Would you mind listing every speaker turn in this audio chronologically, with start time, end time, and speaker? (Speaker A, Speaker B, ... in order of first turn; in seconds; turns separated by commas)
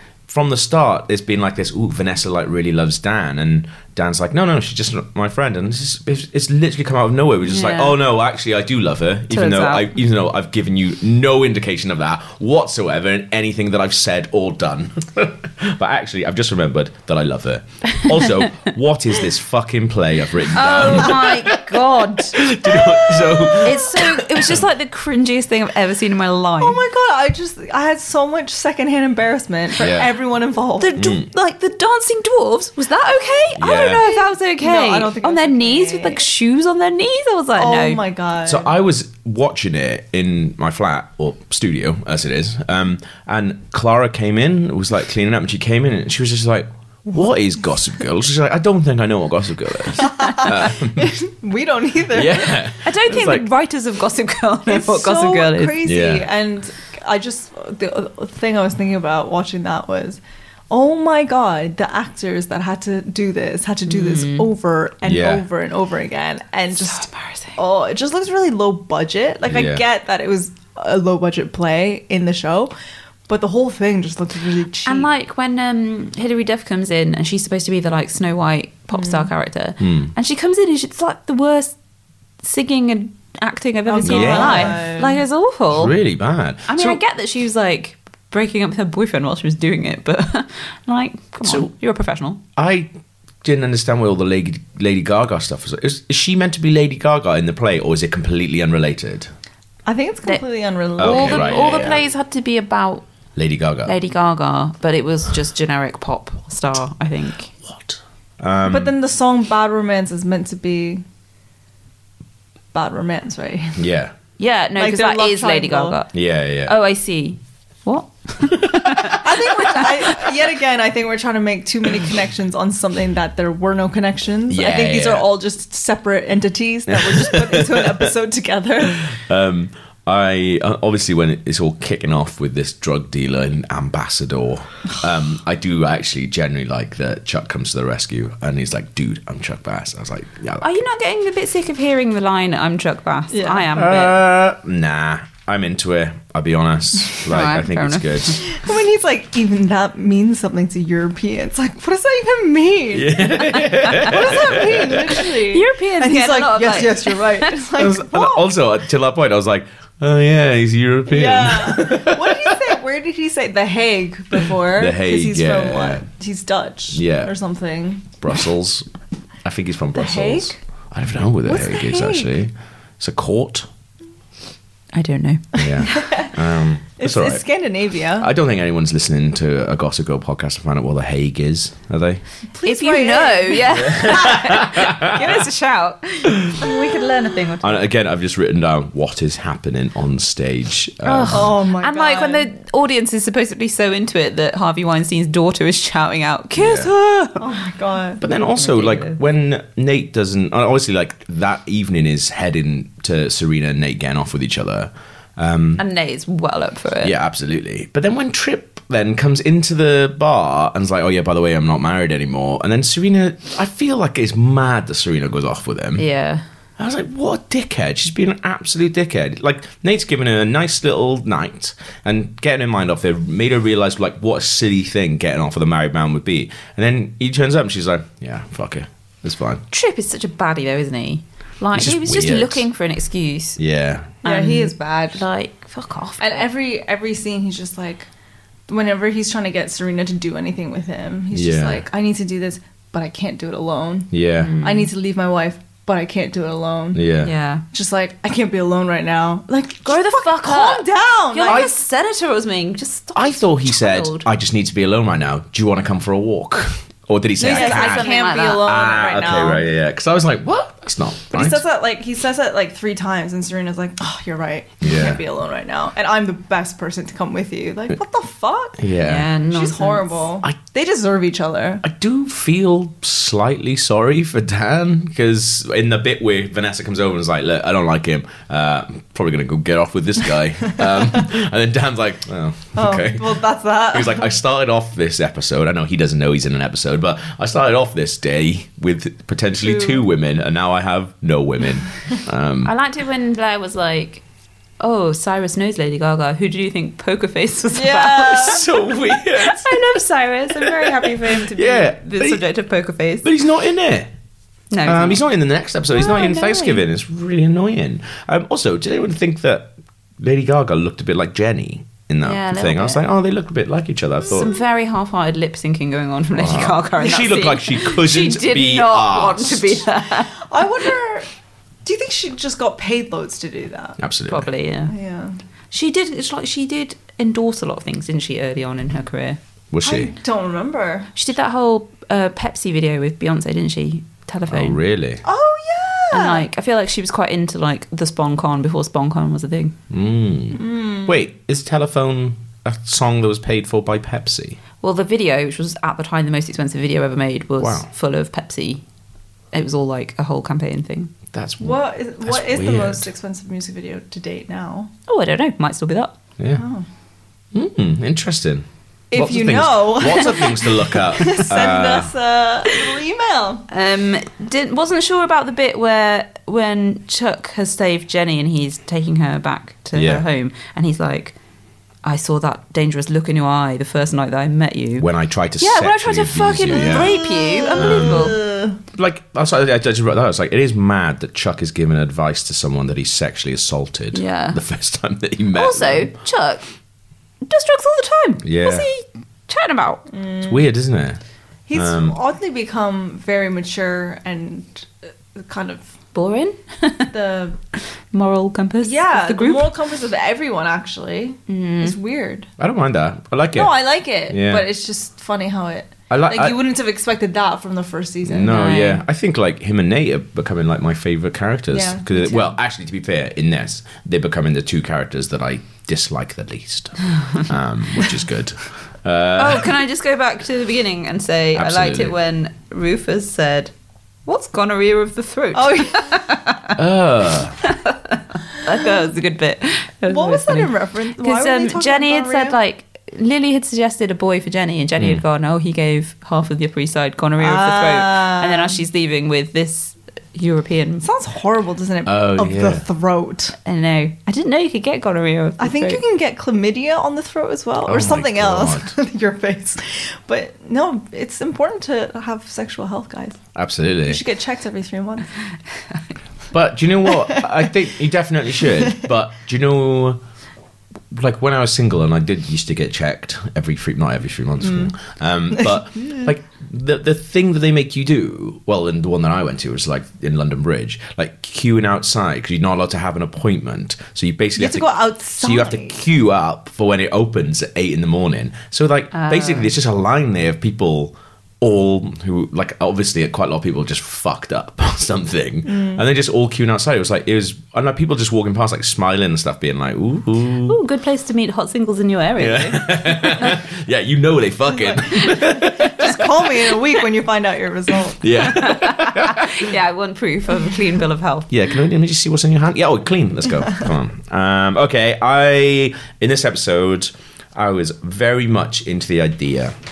Speaker A: 0.3-24.6, Speaker B: 7.4-8.0, Speaker B: 9.3-9.9, Speaker B: 20.5-22.4, Speaker C: 22.7-23.8, Speaker B: 23.6-26.8, Speaker C: 26.6-31.0, Speaker A: 29.8-30.1, Speaker B: 30.8-38.0, Speaker A: 31.0-31.3, Speaker A: 33.6-34.1, Speaker C: 34.6-36.2, Speaker C: 37.6-38.7, Speaker A: 38.5-51.1, Speaker C: 50.0-52.7, Speaker B: 50.1-50.5, Speaker A: 52.1-53.5, Speaker B: 52.8-55.8, Speaker C: 54.7-72.7, Speaker A: 55.8-56.3, Speaker B: 63.9-64.5, Speaker A: 65.0-65.5, Speaker B: 66.8-67.6, Speaker A: 69.5-69.8, Speaker C: 73.3-75.1, Speaker B: 74.8-81.8, Speaker C: 79.0-79.3, Speaker A: 79.8-80.1, Speaker B: 82.4-86.0, Speaker C: 83.9-85.2, Speaker A: 84.0-84.8, Speaker A: 85.7-87.0, Speaker B: 86.7-92.4, Speaker A: 91.4-91.7, Speaker A: 92.6-92.9, Speaker A: 93.4-99.3, Speaker C: 99.9-101.9, Speaker A: 101.0-102.0, Speaker B: 101.0-103.0, Speaker A: 103.4-103.9, Speaker B: 103.8-107.5, Speaker A: 107.7-108.9, Speaker C: 108.7-111.0, Speaker C: 112.7-113.8, Speaker A: 113.8-114.1, Speaker B: 114.4-116.1, Speaker C: 114.8-116.0, Speaker A: 116.1-116.7, Speaker B: 116.7-120.3, Speaker A: 118.5-119.0, Speaker C: 119.1-129.1, Speaker A: 124.5-125.3, Speaker A: 126.9-128.1, Speaker A: 129.0-140.8, Speaker B: 140.6-144.2, Speaker C: 143.3-143.7, Speaker A: 143.7-148.4, Speaker B: 147.3-148.4, Speaker C: 148.4-158.5, Speaker A: 152.9-155.2, Speaker B: 153.7-154.1, Speaker B: 155.2-157.6, Speaker A: 157.7-162.6, Speaker C: 161.1-168.2, Speaker A: 164.4-166.1, Speaker A: 166.9-167.3, Speaker A: 168.2-168.9, Speaker A: 169.4-173.7, Speaker C: 169.9-170.6, Speaker C: 171.4-172.3, Speaker B: 174.9-176.0, Speaker A: 175.6-177.4, Speaker C: 175.9-176.4, Speaker C: 177.0-178.3, Speaker A: 178.2-182.2, Speaker C: 182.5-184.4, Speaker B: 182.6-187.8, Speaker A: 183.8-185.4, Speaker A: 186.3-186.6, Speaker A: 187.6-191.6, Speaker B: 191.0-197.5, Speaker C: 191.3-192.5, Speaker A: 196.6-196.9, Speaker C: 197.4-198.2, Speaker A: 198.2-205.8, Speaker B: 198.6-199.2, Speaker B: 205.8-207.1, Speaker A: 207.0-216.0, Speaker B: 216.0-216.4, Speaker A: 216.8-229.6, Speaker B: 229.7-233.6, Speaker A: 231.8-232.7, Speaker A: 233.6-234.1, Speaker B: 234.2-236.5, Speaker C: 234.2-235.2, Speaker C: 236.2-238.1, Speaker C: 238.7-247.1, Speaker A: 241.3-241.8, Speaker A: 244.1-244.5, Speaker B: 244.4-244.9, Speaker A: 246.9-247.3, Speaker B: 247.2-247.6, Speaker C: 247.7-251.7, Speaker B: 249.8-254.3, Speaker A: 253.2-261.6, Speaker C: 257.4-259.7, Speaker B: 257.4-258.7, Speaker C: 261.3-268.8, Speaker A: 264.8-265.2, Speaker A: 268.8-269.3, Speaker B: 268.9-270.2, Speaker C: 269.5-271.8, Speaker A: 271.8-283.4, Speaker C: 282.8-284.3, Speaker A: 283.9-292.7, Speaker C: 289.6-290.0, Speaker B: 292.6-294.2, Speaker B: 294.8-298.8, Speaker C: 297.7-298.7, Speaker A: 298.3-300.0, Speaker B: 299.3-303.3, Speaker A: 300.6-302.4, Speaker A: 303.2-304.1, Speaker B: 304.7-305.2, Speaker A: 304.8-314.5, Speaker B: 305.9-306.8, Speaker B: 312.2-313.0, Speaker B: 314.3-320.4, Speaker A: 316.4-319.9, Speaker C: 320.4-321.3, Speaker C: 321.8-324.0, Speaker A: 324.0-324.5, Speaker B: 324.3-324.9, Speaker C: 324.9-325.4, Speaker B: 325.7-329.4, Speaker A: 329.7-330.1, Speaker C: 329.9-331.1, Speaker B: 331.1-334.8, Speaker A: 334.5-335.2, Speaker C: 335.2-336.5, Speaker B: 336.1-339.8, Speaker A: 339.9-344.6, Speaker C: 340.6-341.2, Speaker B: 344.8-348.8, Speaker A: 347.6-347.9, Speaker B: 349.5-351.1, Speaker A: 351.3-353.1, Speaker C: 351.6-354.9, Speaker B: 355.1-356.2, Speaker C: 356.6-356.9, Speaker A: 357.5-362.1, Speaker C: 359.1-363.7, Speaker B: 363.7-371.4, Speaker A: 369.9-370.2, Speaker B: 372.0-375.1, Speaker A: 375.0-377.1, Speaker B: 375.6-378.4, Speaker C: 376.7-378.8, Speaker A: 377.8-378.4, Speaker A: 378.9-386.1, Speaker B: 384.1-384.6, Speaker B: 385.6-386.6, Speaker B: 387.4-390.1, Speaker A: 388.4-388.9, Speaker C: 390.1-390.7, Speaker A: 390.4-391.2, Speaker C: 391.7-395.9, Speaker A: 391.7-392.2, Speaker B: 396.1-397.1, Speaker C: 397.1-397.6, Speaker B: 398.1-399.7, Speaker C: 398.8-402.5, Speaker B: 401.5-402.0, Speaker A: 402.6-403.8, Speaker C: 403.5-408.6, Speaker A: 404.3-404.7, Speaker A: 406.1-406.6, Speaker A: 408.2-419.8, Speaker B: 408.5-409.0, Speaker C: 411.7-412.5, Speaker B: 419.4-423.7, Speaker A: 421.5-422.2, Speaker B: 424.3-426.8, Speaker C: 425.6-426.1, Speaker A: 426.8-427.6, Speaker B: 427.6-441.1, Speaker C: 430.1-432.6, Speaker C: 437.4-438.8, Speaker C: 441.0-443.6, Speaker A: 442.1-442.8, Speaker B: 443.6-446.0, Speaker C: 445.6-453.4, Speaker A: 447.9-448.9, Speaker A: 453.6-454.2, Speaker C: 454.1-455.3, Speaker A: 456.5-460.2, Speaker C: 457.1-457.7, Speaker C: 458.7-459.0, Speaker A: 461.1-490.8, Speaker C: 464.6-464.9, Speaker C: 465.6-466.3, Speaker C: 474.6-476.0, Speaker B: 479.1-479.7, Speaker C: 485.6-486.1, Speaker B: 490.7-493.6, Speaker A: 492.4-496.8, Speaker C: 494.9-498.4, Speaker A: 498.2-499.7, Speaker B: 498.3-501.5, Speaker A: 501.5-509.7